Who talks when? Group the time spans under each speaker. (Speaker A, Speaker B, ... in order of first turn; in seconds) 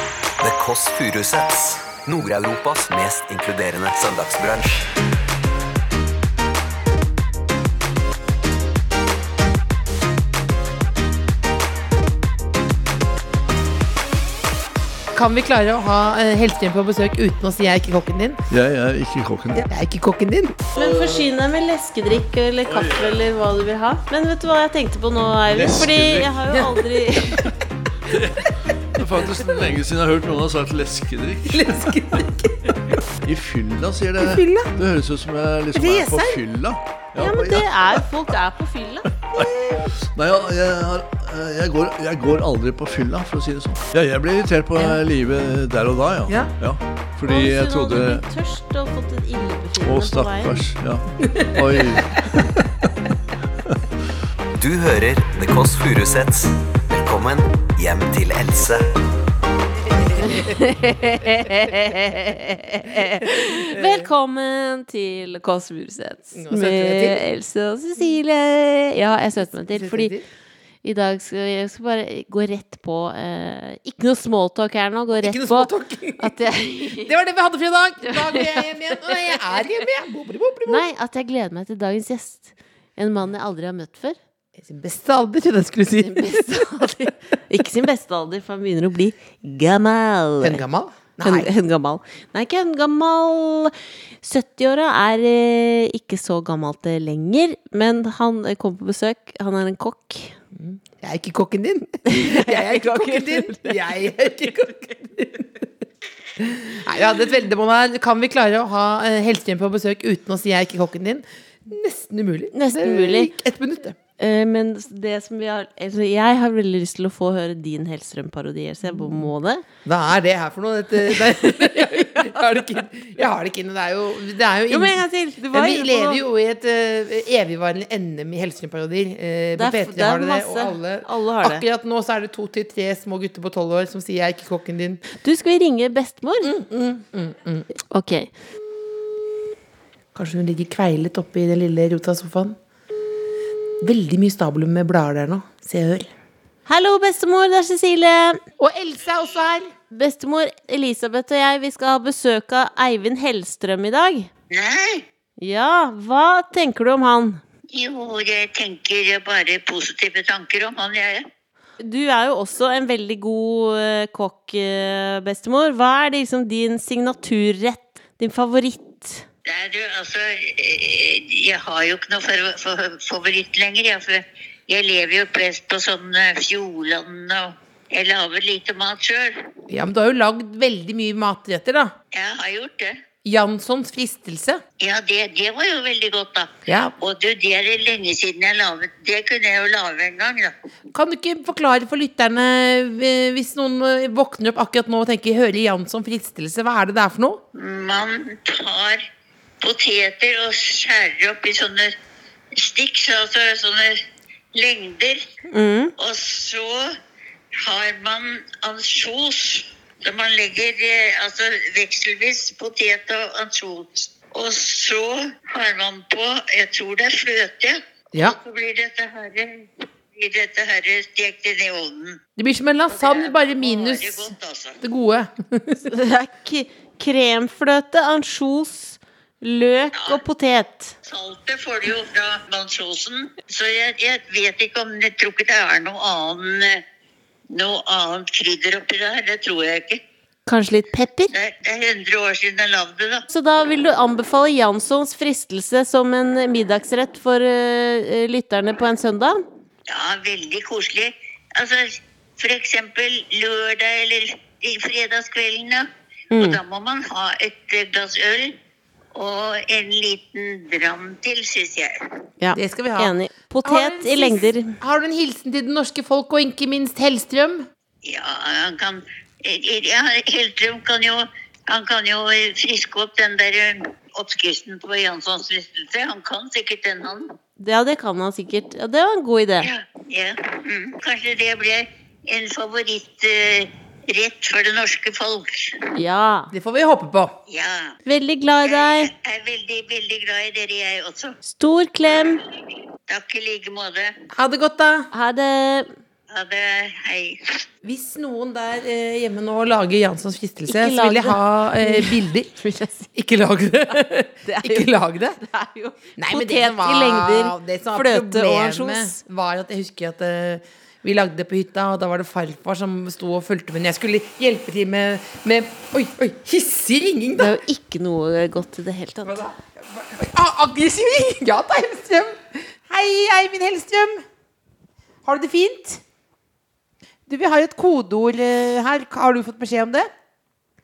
Speaker A: 0.4-4.9, 54.6-58.9
Speaker B: 15.1-18.4, 19.5-20.6, 31.5-33.0, 34.2-34.7, 35.7-36.4, 39.4-39.9, 46.3-46.5, 51.2-52.1, 60.0-60.5, 63.2-64.1, 66.3-67.2, 69.6-70.2, 75.2-76.3, 77.0-80.9, 84.6-86.7, 90.4-91.5, 100.6-105.7, 106.4-114.0, 118.9-119.3, 119.8-135.0, 136.4-137.7, 140.2-142.6, 143.8-146.1, 148.6-149.7, 179.7-181.9, 183.2-184.6, 186.7-186.9, 190.9-197.4, 222.4-224.3, 224.8-225.9, 262.6-263.1, 263.6-267.7, 286.5-287.4, 294.3-295.1, 297.8-302.6, 303.1-305.4, 306.2-317.5, 319.3-324.2, 325.2-326.0, 327.3-330.1
Speaker C: 18.5-19.7, 20.8-21.2, 22.7-23.3, 25.5-26.6, 28.1-32.2, 33.2-38.0, 39.2-48.2, 49.8-52.9
Speaker D: 20.7-27.6, 37.2-39.1, 47.3-50.6, 60.1-70.1, 70.8-77.1, 78.0-79.6, 80.7-84.2, 86.0-90.6, 91.2-100.4, 102.1-103.9, 112.5-113.3, 114.2-119.7, 121.0-122.7, 124.7-126.2, 129.6-131.7, 135.1-136.6, 137.9-138.3, 146.7-148.4, 149.9-154.3, 155.4-157.4, 161.8-169.3, 205.5-205.9, 225.8-231.0, 240.5-241.3, 243.3-249.4, 256.3-256.6, 262.4-264.8, 277.6-279.7, 285.9-286.5, 288.1-289.1, 291.4-292.4, 295.1-295.9, 300.7-303.1, 304.4-309.2, 317.4-319.4
Speaker E: 154.5-155.1, 157.7-161.3, 169.5-179.4, 182.1-182.9, 184.8-190.6, 197.5-199.0, 199.6-201.9, 202.6-204.0, 204.5-205.2, 206.0-207.0, 207.6-222.2, 222.9-224.8, 231.0-236.8, 237.5-240.0, 241.3-243.3, 249.9-258.6, 259.1-262.1, 268.0-277.3, 279.6-285.9, 287.5-288.0, 288.6-291.4, 293.1-294.1, 296.3-297.6